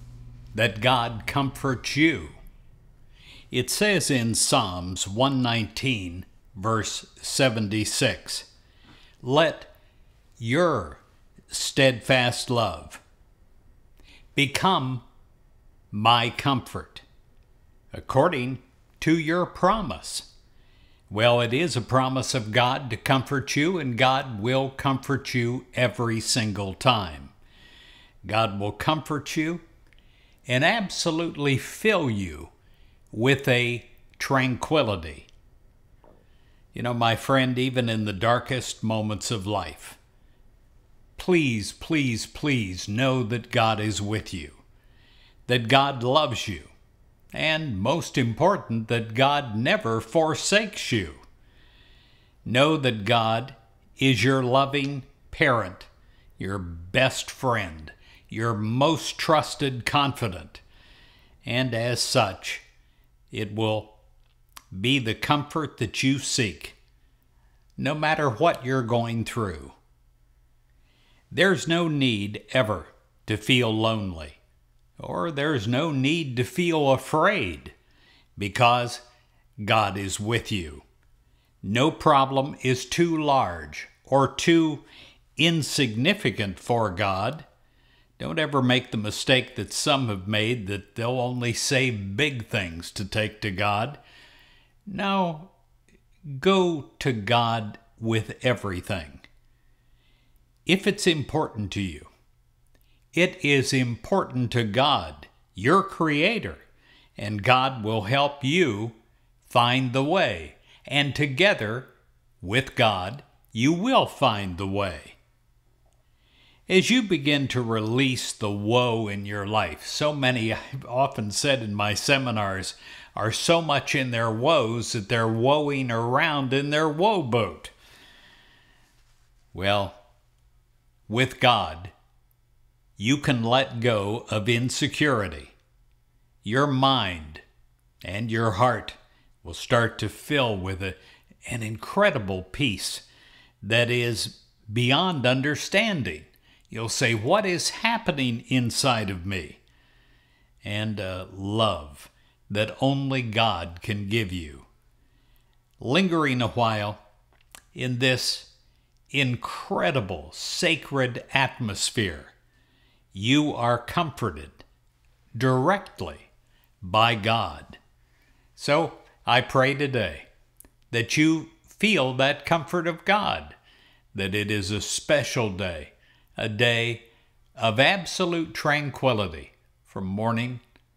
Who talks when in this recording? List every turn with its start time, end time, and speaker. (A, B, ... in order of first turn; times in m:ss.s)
0:00.5-0:02.4 A
0:03.5-0:08.5 A
0:09.2-0:09.7 A
0:10.4-0:13.0 A
0:14.3-0:15.0 A
0:15.9-0:17.0 A
0:17.9-0:20.3 A
0:21.1-0:27.3 A
0:28.2-0:29.6 A
0:30.4-0:32.5 A
0:33.1-0:35.3 A
0:36.7-0:40.0 A
0:41.2-0:44.6 A
0:45.5-0:46.7 A
0:47.3-0:51.2 A
0:52.4-1:00.6 A
1:01.4-1:02.6 A
1:03.3-1:04.0 A
1:04.7-1:06.8 A
1:07.8-1:09.8 A
1:11.3-1:14.4 A
1:15.0-1:17.7 A
1:18.4-1:19.0 A
1:19.6-1:20.8 A
1:21.6-1:24.8 A
1:25.4-1:27.5 A
1:28.2-1:34.0 A
1:34.8-1:35.5 A
1:36.3-1:39.2 A
1:40.6-1:42.1 A
1:43.1-1:46.6 A
1:47.2-1:51.9 A
1:52.4-1:55.2 A
1:56.7-2:07.7 A
2:09.5-2:10.0 A
2:11.1-2:11.9 A
2:13.0-2:15.5 A
2:16.4-2:17.4 A
2:18.0-2:23.0 A
2:23.6-2:29.6 A
2:30.6-2:34.7 A
2:35.8-2:37.0 A
2:37.7-2:38.5 A
2:39.1-2:42.3 A
2:43.1-2:44.6 A
2:45.4-2:46.3 A
2:46.8-2:47.8 A
2:48.6-2:50.3 A
2:50.9-2:53.6 A
2:54.1-3:00.6 A